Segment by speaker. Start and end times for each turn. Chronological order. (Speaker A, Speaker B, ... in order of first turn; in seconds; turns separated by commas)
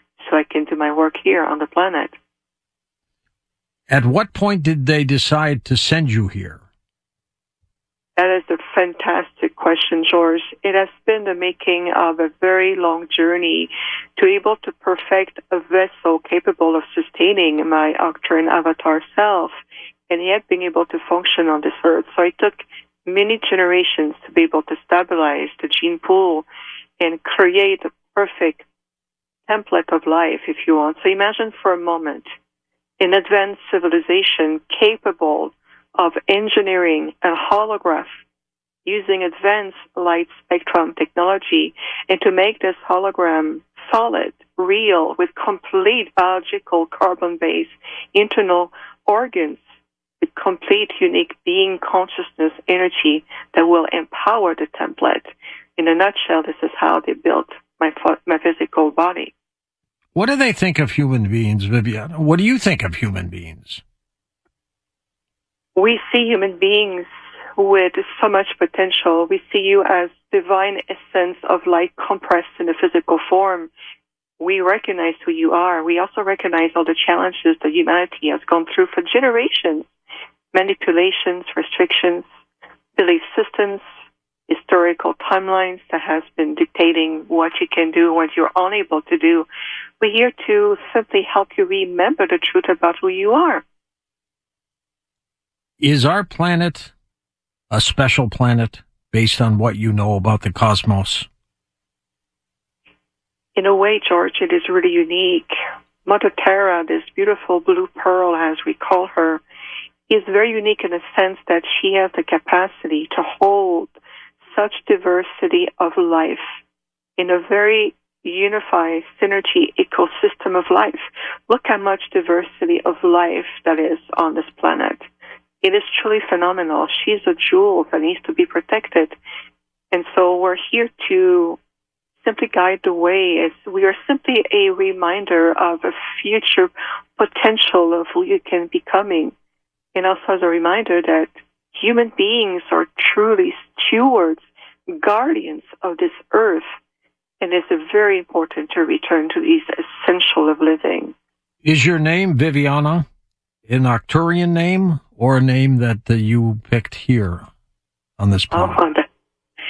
Speaker A: 0.2-2.1, Speaker B: 3.9-6.6, Speaker A: 8.2-19.6, Speaker A: 20.1-26.5, Speaker A: 27.0-28.7, Speaker A: 29.5-32.3, Speaker A: 33.0-38.2, Speaker A: 38.9-49.6, Speaker A: 50.2-59.3, Speaker B: 60.1-63.8, Speaker A: 65.8-73.7, Speaker A: 74.4-79.9, Speaker A: 80.5-82.3, Speaker A: 83.0-83.8, Speaker A: 84.5-89.5, Speaker A: 90.0-93.6, Speaker B: 95.8-96.9, Speaker B: 97.7-101.3, Speaker A: 103.6-105.5, Speaker A: 106.1-109.4, Speaker A: 110.1-113.9, Speaker A: 114.5-116.6, Speaker A: 117.2-125.1, Speaker A: 125.6-129.2, Speaker A: 129.9-131.6, Speaker A: 132.2-139.3, Speaker A: 139.9-146.7, Speaker A: 147.4-151.2, Speaker B: 151.6-153.1, Speaker B: 153.7-157.5, Speaker B: 158.2-158.8, Speaker A: 158.5-159.1